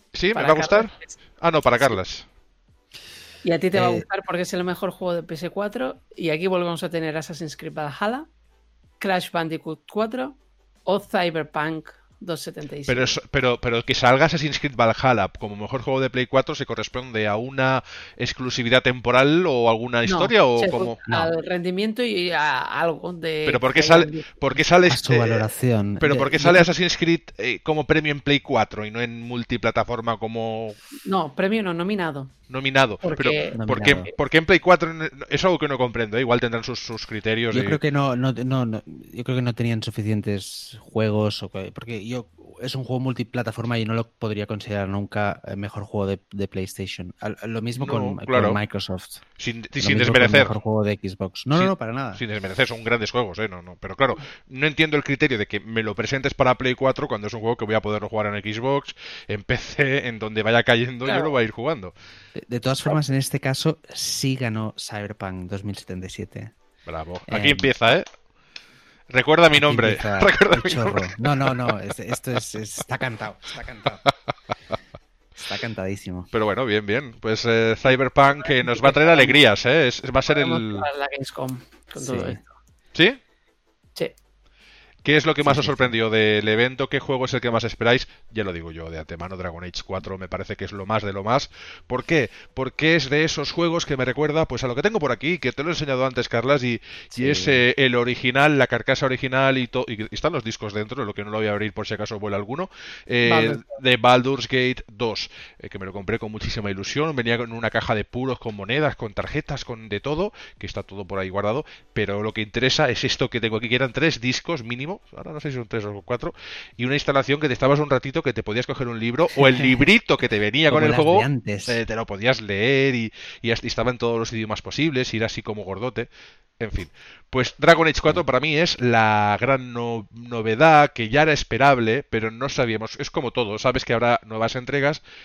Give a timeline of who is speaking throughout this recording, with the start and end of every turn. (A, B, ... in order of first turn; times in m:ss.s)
0:00.1-0:02.3 A
0:00.3-0:01.2 B
0:03.4-0:08.3 B
0:03.7-0:04.0 C
0:09.0-0:13.1 B
0:12.9-0:21.1 A
0:20.0-0:24.4 B
0:23.4-0:25.5 A
0:24.9-0:26.7 C
0:26.0-0:30.8 A
0:30.9-0:32.3 B
0:32.5-0:37.8 A
0:33.0-0:34.1 B
0:33.5-0:34.1 C
0:37.5-0:49.2 C
0:47.8-0:48.6 A
0:49.4-0:50.5 A
0:49.8-0:52.2 C
0:51.5-1:01.9 A
1:01.0-1:01.4 B
1:02.4-1:06.5 C
1:06.9-1:08.0 A
1:07.3-1:07.7 C
1:09.1-1:11.6 A
1:09.5-1:14.0 C
1:15.4-1:16.3 C
1:16.3-1:20.9 A
1:18.5-1:19.4 B
1:20.2-1:22.5 B
1:22.0-1:22.4 C
1:22.9-1:23.2 A
1:25.0-2:15.0 A
1:25.4-1:25.9 C
1:37.1-1:37.6 C
1:43.2-1:43.8 B
2:00.7-2:01.8 C